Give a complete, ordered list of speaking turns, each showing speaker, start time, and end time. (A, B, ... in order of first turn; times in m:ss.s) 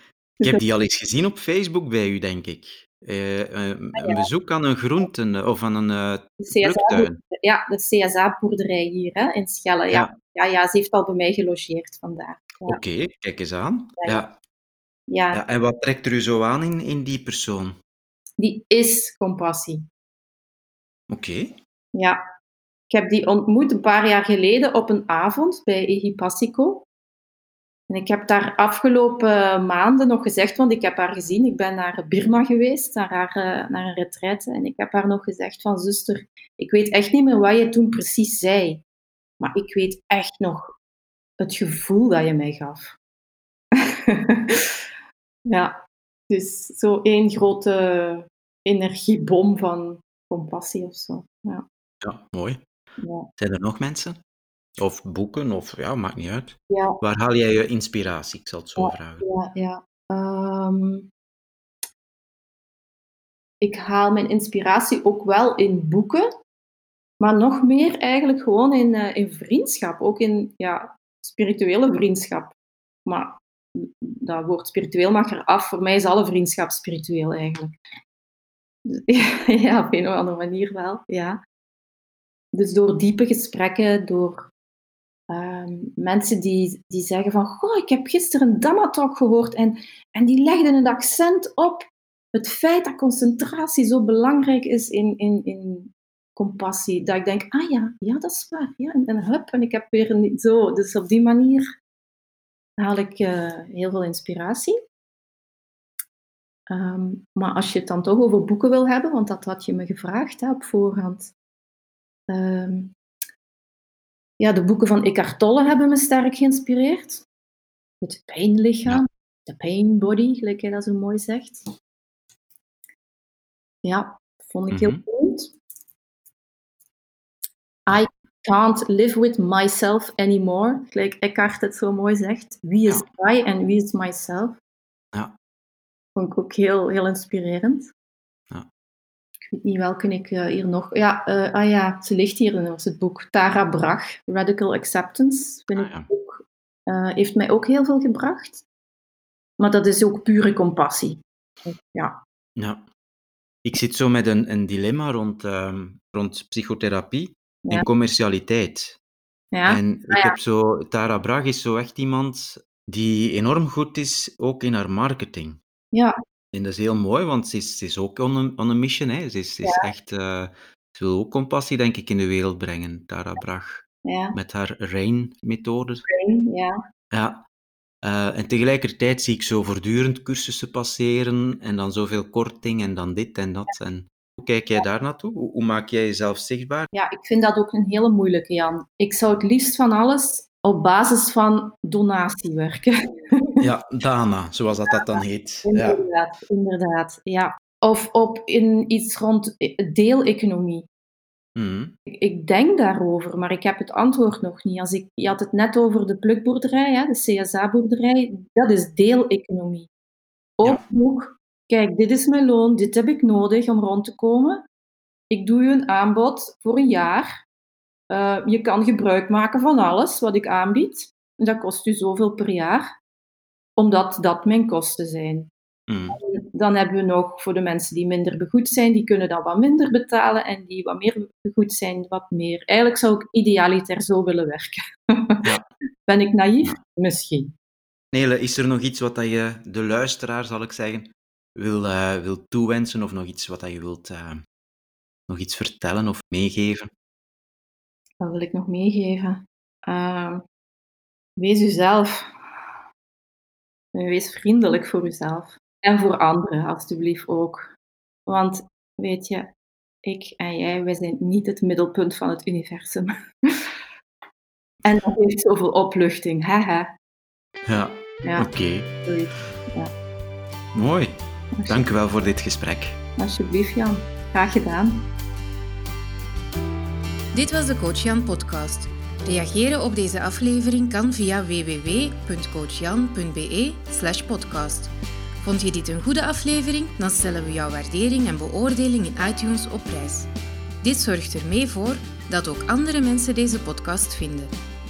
0:00.4-0:07.2 A
0:03.9-0:04.3 B
0:06.4-0:12.8 B
0:12.7-0:14.3 A
0:14.0-0:14.2 B
0:15.1-0:15.4 B
0:15.3-0:17.8 A
0:18.4-0:19.8 B
0:21.1-0:21.6 A
0:22.9-0:26.8 B
0:27.9-0:38.8 B
0:39.4-0:40.8 B
0:41.4-0:43.0 B
0:43.7-0:44.7 B
0:45.4-0:45.8 B
0:46.3-0:51.6 B
0:52.0-0:52.6 A
0:53.0-0:53.3 B
0:53.4-0:54.2 A
0:54.8-0:59.2 A
0:56.7-0:57.0 B
0:58.8-1:01.1 B
1:03.6-1:06.3 B
1:07.2-1:12.5 B
1:13.0-1:17.7 B
1:18.8-1:21.4 B
1:22.5-1:24.5 B
1:25.3-1:41.6 B
1:42.8-1:44.8 B
1:46.7-1:51.3 B
1:52.3-1:52.9 B
1:54.4-1:57.2 B
1:58.0-2:01.6 B
2:03.8-2:05.5 B
2:04.7-2:05.0 A
2:07.9-2:14.6 B
2:16.2-2:17.9 B
2:19.4-2:28.6 B
2:25.7-2:26.1 A
2:29.6-2:32.2 B
2:32.6-2:32.8 A
2:33.6-2:39.0 A
2:39.5-2:40.4 B
2:39.6-2:45.6 A
2:46.5-2:56.0 A
2:49.6-2:49.9 B
2:54.0-2:54.4 B
2:56.0-2:56.8 B
2:57.1-2:57.4 A
2:58.0-3:06.9 A
3:06.9-3:13.6 B
3:13.6-3:16.0 A
3:14.9-3:20.8 B
3:21.6-3:21.9 A
3:22.1-3:29.9 B
3:30.6-3:34.6 B
3:35.3-3:37.4 B
3:38.1-3:42.9 B
3:43.8-3:45.5 B
3:45.9-3:46.2 A
3:46.1-3:55.4 B
3:56.1-3:57.5 B
3:58.1-4:04.4 A
4:05.3-4:06.9 A
4:08.2-4:10.4 B
4:11.4-4:12.3 B
4:13.9-4:17.7 B
4:18.3-4:19.5 B
4:20.0-4:23.7 B
4:24.8-4:26.9 B
4:27.6-4:28.9 A
4:28.2-4:28.5 B
4:29.0-4:29.9 B
4:30.7-4:31.2 A
4:31.6-4:31.8 B
4:31.7-4:33.0 A
4:33.2-4:35.1 B
4:37.3-4:44.9 C
4:45.4-4:50.3 C
4:50.8-4:54.5 C